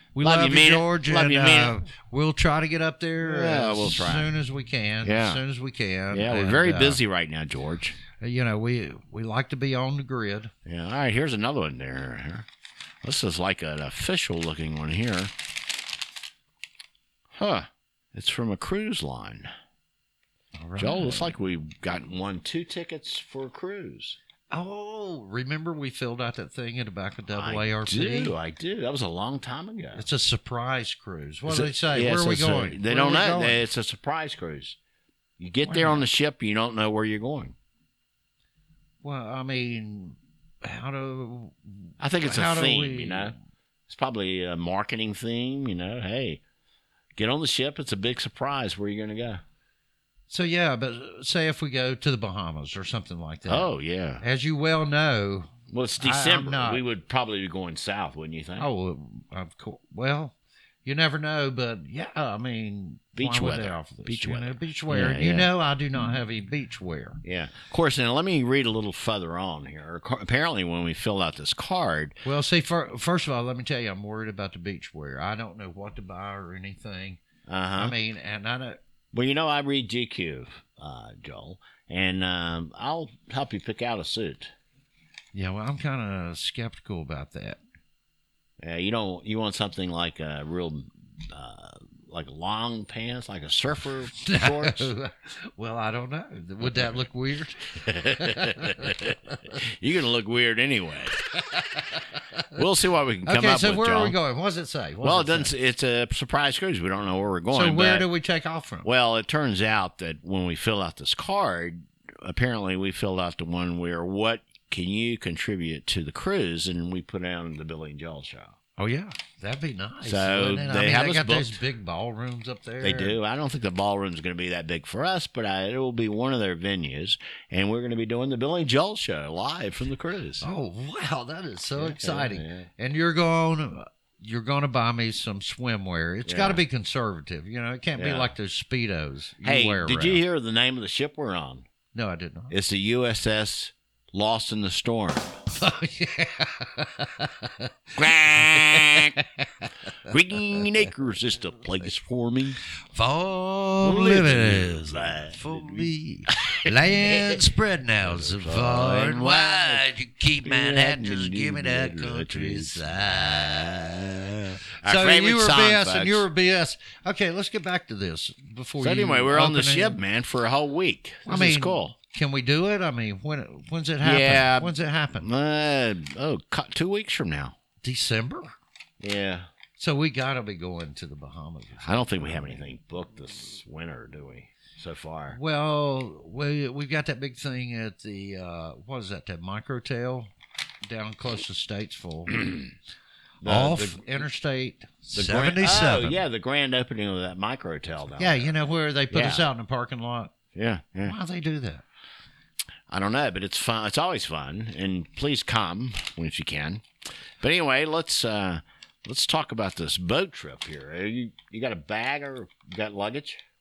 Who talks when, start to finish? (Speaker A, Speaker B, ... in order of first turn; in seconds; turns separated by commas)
Speaker A: 0.2-7.0, Speaker B: 0.2-1.8, Speaker B: 3.2-4.3, Speaker B: 5.0-5.4, Speaker B: 6.1-8.0, Speaker A: 8.2-10.5, Speaker B: 10.7-12.5, Speaker B: 13.0-15.3, Speaker B: 17.4-19.5, Speaker A: 20.6-21.3, Speaker B: 20.8-24.2, Speaker A: 24.5-28.4, Speaker B: 27.3-30.1, Speaker A: 29.9-33.6, Speaker B: 31.5-34.8, Speaker B: 35.4-37.6, Speaker A: 35.6-36.1, Speaker A: 39.0-43.4, Speaker B: 42.0-43.4, Speaker B: 43.9-46.4, Speaker B: 47.2-49.4, Speaker A: 50.3-53.7, Speaker B: 53.5-54.2, Speaker A: 54.2-56.8, Speaker B: 55.7-58.7, Speaker A: 58.6-67.2, Speaker B: 63.1-65.5, Speaker B: 67.2-72.2, Speaker A: 72.2-77.2, Speaker B: 77.5-78.0, Speaker A: 77.8-78.8, Speaker B: 79.1-84.5, Speaker A: 85.3-87.6, Speaker B: 88.6-94.9, Speaker A: 94.2-98.9, Speaker B: 98.1-99.2, Speaker B: 99.8-101.2, Speaker A: 101.5-102.0, Speaker B: 102.5-104.2, Speaker A: 103.2-105.5, Speaker B: 105.0-108.1, Speaker A: 107.5-108.9, Speaker B: 108.8-118.6, Speaker A: 118.8-123.2, Speaker B: 120.0-121.6, Speaker B: 122.8-130.4, Speaker A: 130.4-140.2, Speaker B: 131.8-132.7, Speaker B: 136.3-136.6, Speaker B: 138.0-138.3, Speaker B: 139.4-141.7, Speaker A: 141.9-142.5, Speaker B: 142.5-145.4, Speaker A: 145.6-149.7, Speaker B: 148.0-149.2, Speaker B: 150.1-152.6, Speaker A: 152.9-163.8, Speaker B: 153.8-157.4, Speaker B: 158.0-159.9, Speaker B: 160.4-166.3, Speaker A: 164.8-170.0, Speaker B: 168.8-172.0, Speaker A: 171.3-175.3, Speaker B: 174.0-177.6, Speaker A: 177.8-178.6, Speaker B: 179.0-179.5, Speaker A: 179.8-182.4, Speaker B: 181.8-185.4, Speaker A: 185.3-190.3, Speaker A: 190.8-192.6, Speaker B: 193.4-194.3, Speaker A: 193.4-196.2, Speaker B: 195.2-198.5, Speaker A: 198.2-200.3, Speaker B: 199.1-199.5, Speaker B: 200.6-201.2, Speaker A: 201.1-201.8, Speaker B: 202.9-206.8, Speaker B: 207.4-213.4